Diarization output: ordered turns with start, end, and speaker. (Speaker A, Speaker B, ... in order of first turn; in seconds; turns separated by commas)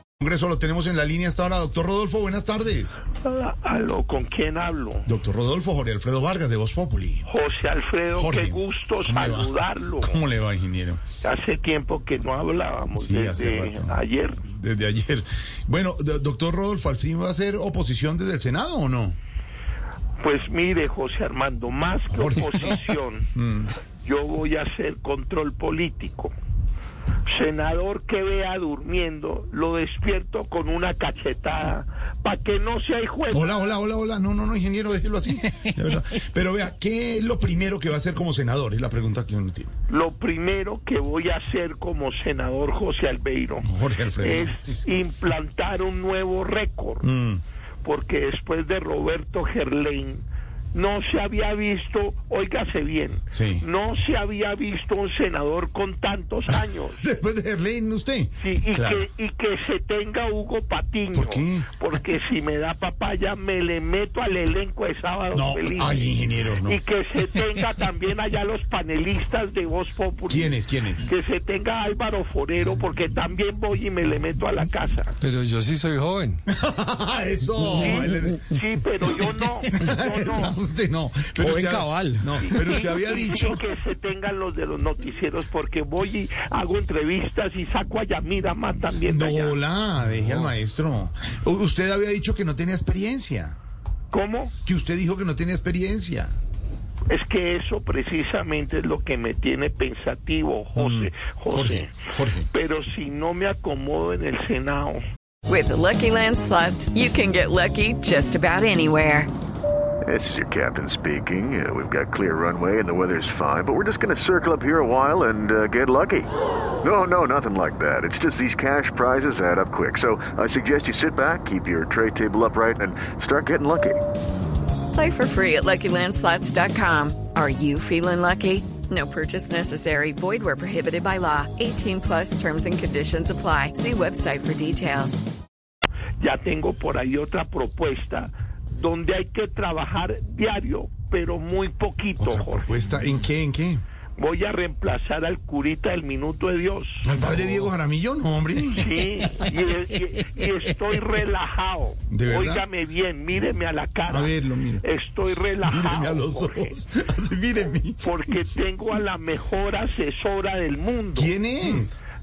Speaker A: 0.2-3.0, Speaker B: 3.2-5.1, Speaker A: 5.1-7.3, Speaker B: 7.3-10.2, Speaker A: 8.2-11.0, Speaker B: 11.2-14.4, Speaker A: 12.9-19.2, Speaker B: 20.2-23.3, Speaker A: 22.1-22.8, Speaker A: 23.4-23.7, Speaker B: 24.0-26.4, Speaker B: 27.3-33.5, Speaker A: 33.3-39.7, Speaker B: 39.9-47.1, Speaker A: 43.6-44.7, Speaker A: 47.0-47.4, Speaker B: 47.8-57.1, Speaker A: 53.3-53.6, Speaker A: 56.5-59.0, Speaker B: 58.4-75.2, Speaker A: 61.1-61.7, Speaker A: 65.3-66.8, Speaker A: 70.3-71.1, Speaker C: 75.2-76.4, Speaker A: 76.5-78.5, Speaker B: 77.8-80.6, Speaker A: 79.7-83.6, Speaker C: 81.4-82.4, Speaker B: 82.4-89.6, Speaker A: 89.0-93.6, Speaker C: 90.2-90.5, Speaker B: 94.1-94.5, Speaker A: 94.7-96.3, Speaker B: 97.1-102.0, Speaker A: 100.8-102.5, Speaker B: 102.5-105.0, Speaker D: 105.5-109.3, Speaker E: 110.0-116.3, Speaker E: 116.8-124.0, Speaker D: 124.9-135.2, Speaker B: 136.2-142.7, Speaker A: 142.2-143.8, Speaker B: 144.2-147.7, Speaker A: 147.0-149.0, Speaker B: 148.8-156.8, Speaker A: 152.1-152.6, Speaker A: 154.1-154.8, Speaker A: 155.7-158.4, Speaker B: 158.0-161.8, Speaker A: 161.2-162.0